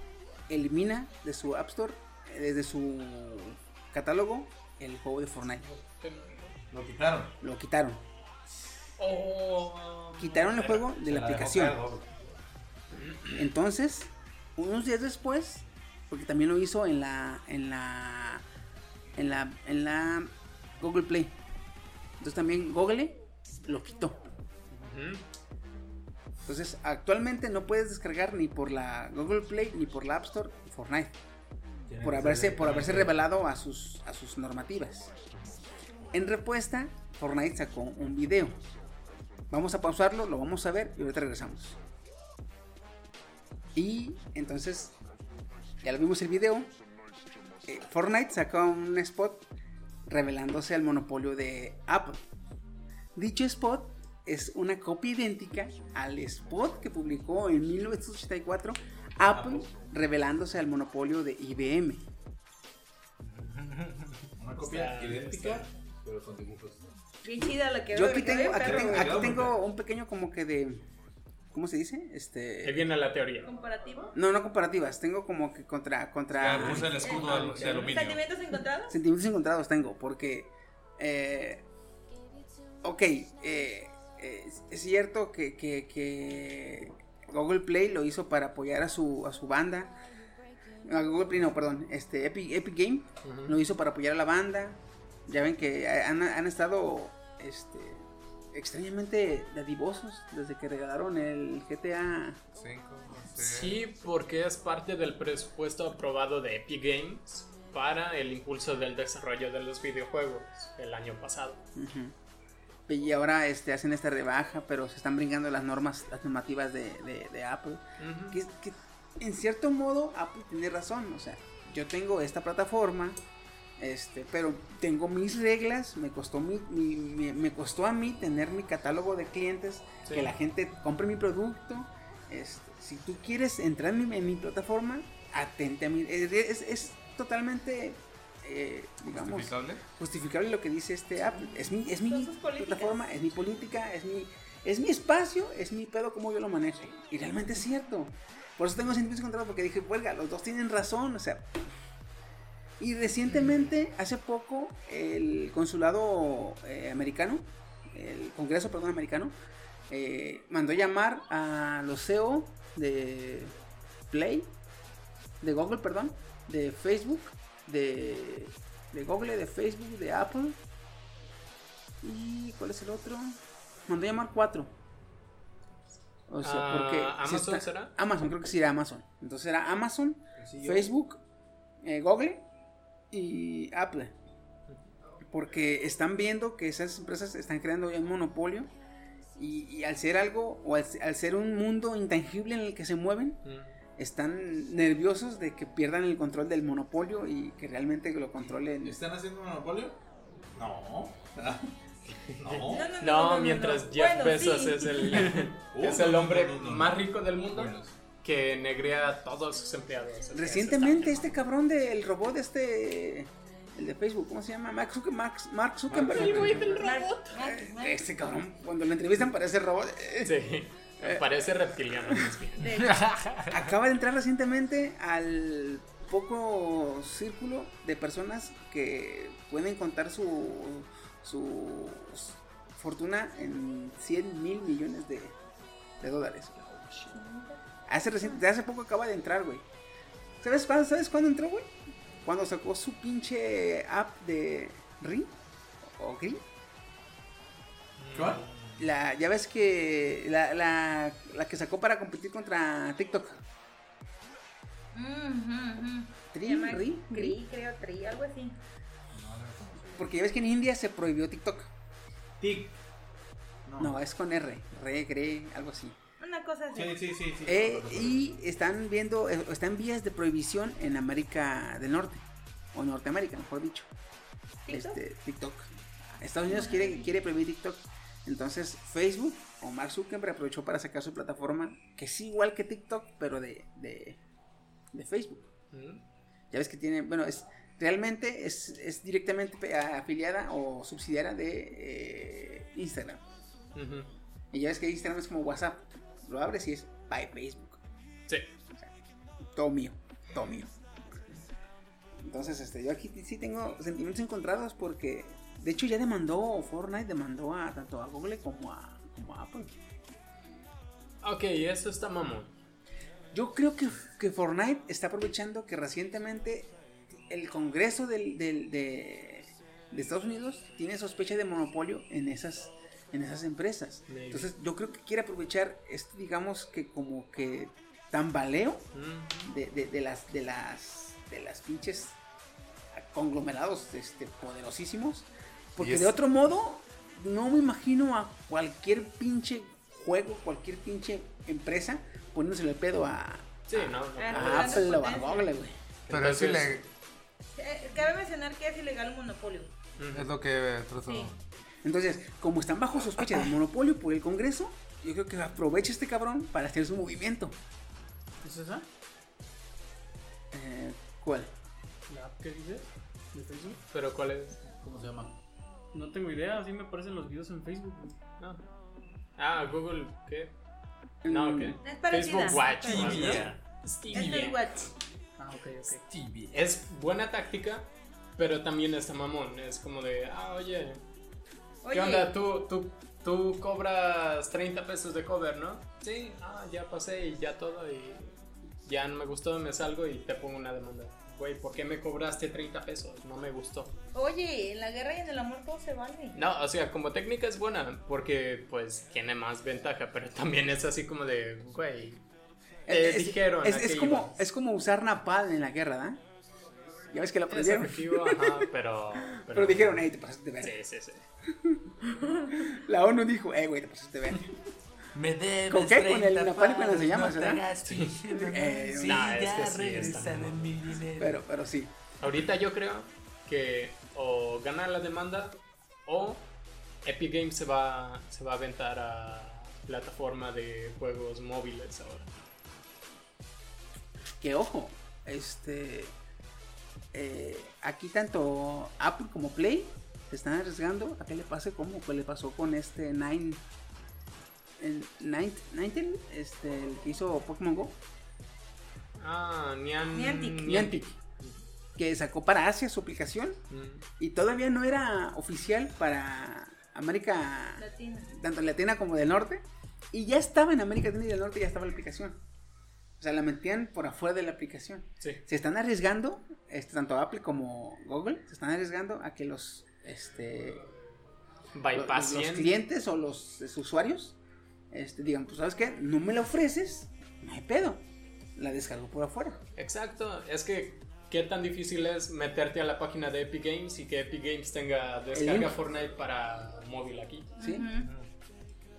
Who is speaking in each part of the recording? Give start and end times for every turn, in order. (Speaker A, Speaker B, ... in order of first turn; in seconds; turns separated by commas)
Speaker A: 0.5-5.7, Speaker B: 5.6-6.5, Speaker C: 6.7-7.3, Speaker A: 7.4-8.0, Speaker B: 9.0-10.8, Speaker A: 10.2-11.8, Speaker C: 10.8-12.1, Speaker B: 13.0-13.4, Speaker A: 13.3-18.4, Speaker A: 19.1-21.4, Speaker A: 22.2-24.3, Speaker B: 24.7-25.2, Speaker A: 26.4-31.2, Speaker C: 31.9-33.2, Speaker A: 32.0-35.1, Speaker A: 36.1-38.6, Speaker A: 39.5-41.8, Speaker A: 43.8-45.0, Speaker A: 45.8-46.7, Speaker A: 47.7-49.5, Speaker A: 50.1-52.2, Speaker A: 53.1-62.0, Speaker C: 59.3-59.7, Speaker D: 63.3-64.2, Speaker C: 64.4-66.9, Speaker B: 64.6-65.7, Speaker E: 67.2-69.3, Speaker A: 67.9-70.9, Speaker C: 68.5-69.6, Speaker A: 71.5-72.9, Speaker B: 72.6-73.5, Speaker E: 73.4-74.1, Speaker A: 74.1-77.2, Speaker D: 76.3-78.2, Speaker E: 76.6-79.0, Speaker A: 78.9-81.6, Speaker A: 82.8-89.9, Speaker A: 90.8-102.4, Speaker B: 93.2-93.6, Speaker D: 102.6-103.8, Speaker B: 103.3-111.6, Speaker A: 111.8-112.2, Speaker A: 112.9-123.2, Speaker B: 118.0-118.4, Speaker A: 123.8-151.6, Speaker B: 130.1-130.3, Speaker D: 139.1-139.8, Speaker E: 141.6-143.0, Speaker A: 152.8-159.3, Speaker A: 159.9-163.6, Speaker A: 164.1-164.5, Speaker A: 165.4-170.6, Speaker A: 172.0-174.7, Speaker A: 176.3-181.2, Speaker B: 176.4-177.9, Speaker C: 180.4-180.9, Speaker A: 181.8-182.4, Speaker A: 183.1-184.1, Speaker A: 185.3-188.7, Speaker A: 189.4-193.4, Speaker B: 193.4-193.8, Speaker A: 194.0-199.0, Speaker C: 198.8-200.0, Speaker C: 200.6-201.7, Speaker B: 202.3-211.3, Speaker C: 202.4-202.9, Speaker E: 202.7-205.3, Speaker C: 205.5-207.9, Speaker A: 210.3-220.4, Speaker C: 215.9-217.3, Speaker B: 216.3-216.7, Speaker E: 216.7-218.0, Speaker B: 220.2-222.7, Speaker A: 221.0-222.3, Speaker E: 222.6-223.1, Speaker D: 223.0-223.5, Speaker A: 223.5-235.4, Speaker A: 236.0-237.2, Speaker E: 237.1-237.6, Speaker A: 237.9-239.7, Speaker A: 240.4-241.7, Speaker A: 242.2-246.4, Speaker B: 248.0-248.9, Speaker C: 248.1-248.4, Speaker A: 248.8-253.4, Speaker E: 254.9-258.6, Speaker A: 256.3-257.4, Speaker C: 259.1-260.1, Speaker A: 259.9-261.7, Speaker C: 262.4-262.8, Speaker C: 263.7-264.0, Speaker A: 263.8-266.0, Speaker E: 266.2-267.0, Speaker C: 266.7-268.3, Speaker A: 267.4-273.9, Speaker E: 274.6-275.0, Speaker A: 274.7-275.7, Speaker A: 276.2-284.2, Speaker E: 276.5-277.1, Speaker A: 284.9-285.5, Speaker B: 285.7-286.0, Speaker A: 286.5-293.2, Speaker B: 293.8-294.1, Speaker A: 294.5-297.8, Speaker A: 299.5-300.7, Speaker A: 302.2-309.8, Speaker B: 311.2-312.5, Speaker A: 313.3-316.7, Speaker A: 317.3-328.9, Speaker B: 324.1-324.5, Speaker B: 328.9-329.5, Speaker A: 329.4-332.2, Speaker A: 332.9-345.8, Speaker D: 335.8-336.1, Speaker B: 343.7-344.9, Speaker E: 344.2-345.5, Speaker B: 346.1-346.8, Speaker D: 346.1-346.8, Speaker E: 347.6-349.7, Speaker B: 350.0-350.3, Speaker D: 350.1-351.4, Speaker E: 351.0-351.3, Speaker A: 351.8-357.6, Speaker F: 358.4-358.9, Speaker A: 360.5-361.5, Speaker F: 362.1-363.8, Speaker B: 363.9-364.6, Speaker C: 364.7-365.3, Speaker F: 365.9-368.2, Speaker B: 369.4-370.5, Speaker A: 371.2-371.8, Speaker B: 371.3-374.6, Speaker E: 371.8-373.5, Speaker D: 372.9-373.5, Speaker E: 374.1-374.9, Speaker F: 375.4-376.0, Speaker D: 376.1-376.5, Speaker B: 376.5-381.0, Speaker E: 381.8-382.3, Speaker B: 381.9-393.9, Speaker E: 394.1-396.4, Speaker B: 396.3-402.2, Speaker A: 402.9-406.2, Speaker B: 402.9-404.4, Speaker A: 407.1-408.7, Speaker B: 407.5-410.1, Speaker A: 409.3-410.8, Speaker B: 410.6-411.3, Speaker A: 411.6-411.9, Speaker A: 412.5-414.6, Speaker G: 415.1-421.4, Speaker A: 415.7-417.6, Speaker B: 417.8-418.2, Speaker A: 418.3-419.4, Speaker B: 419.0-420.7, Speaker A: 421.2-421.9, Speaker B: 422.2-426.5, Speaker B: 427.0-432.3, Speaker A: 434.4-436.1, Speaker A: 437.1-443.6, Speaker A: 444.8-448.0, Speaker B: 449.2-451.6, Speaker E: 450.1-450.8, Speaker A: 450.6-451.2, Speaker A: 452.0-453.6, Speaker B: 453.7-454.1, Speaker A: 454.2-462.4, Speaker E: 457.8-458.3, Speaker A: 463.2-470.9, Speaker B: 471.8-472.8, Speaker A: 471.9-474.4, Speaker A: 474.9-478.0, Speaker A: 478.6-479.6, Speaker B: 479.8-487.5, Speaker A: 485.3-485.8, Speaker A: 487.6-487.9, Speaker E: 487.6-488.1